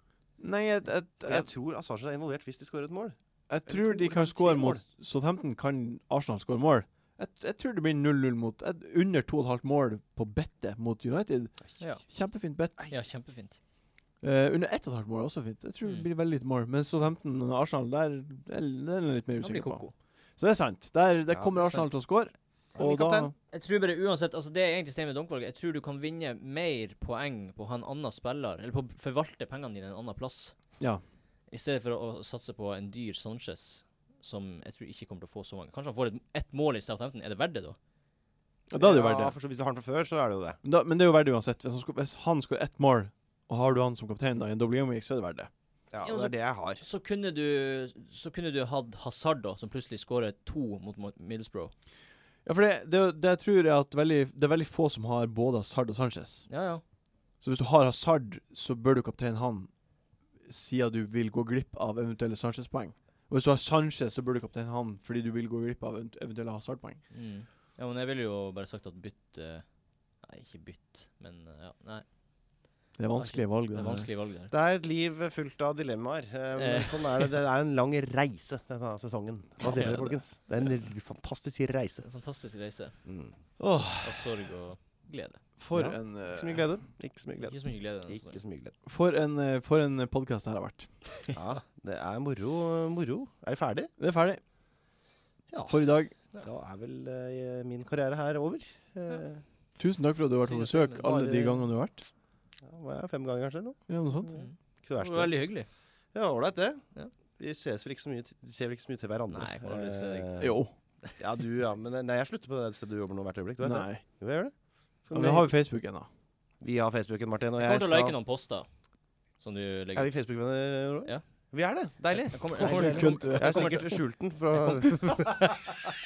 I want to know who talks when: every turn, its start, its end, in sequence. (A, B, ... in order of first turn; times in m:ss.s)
0:00.4-0:01.5 A
0:01.2-0:04.8 B
0:03.5-0:12.9 A
0:12.9-0:13.6 C
0:14.2-0:19.8 A
0:19.4-0:19.9 C
0:20.4-0:23.3 A
0:21.6-0:21.9 C
0:22.7-0:23.3 B
0:23.5-0:30.6 C
0:31.5-0:37.8 C
0:38.7-0:39.3 A
0:38.8-0:40.6 B
0:40.6-0:45.5 A
0:45.9-0:46.8 B
0:46.0-0:51.7 C
0:52.4-0:56.4 A
0:56.5-0:56.8 C
0:57.4-0:59.7 A
1:00.5-1:07.0 A
1:07.1-1:09.6 C
1:10.2-1:12.0 C
1:13.0-1:14.1 A
1:13.2-1:14.5 C
1:14.5-1:22.0 B
1:16.5-1:17.3 C
1:19.6-1:20.2 C
1:22.0-1:22.9 C
1:23.0-1:23.3 B
1:23.6-1:24.2 A
1:24.0-1:25.4 C
1:25.6-1:26.6 A
1:25.7-1:28.7 B
1:27.4-1:28.4 C
1:28.8-1:30.9 A
1:31.3-1:33.9 B
1:34.0-1:34.4 A
1:35.5-1:35.8 B
1:35.7-1:36.1 A
1:36.4-1:39.4 B
1:39.8-1:42.1 A
1:40.4-1:41.6 C
1:42.6-1:45.4 B
1:43.9-1:44.3 A
1:44.3-1:45.7 C
1:46.1-1:46.8 B
1:47.4-1:50.6 B
1:49.3-1:50.4 C
1:50.4-1:50.7 A
1:51.2-1:54.5 B
1:53.6-1:54.0 A
1:55.0-1:55.5 B
1:55.1-1:56.1 A
1:56.6-1:58.2 B
1:57.6-1:58.6 C
1:59.4-2:00.1 C
1:59.9-2:05.8 B
2:02.1-2:04.0 C
2:02.6-2:03.8 A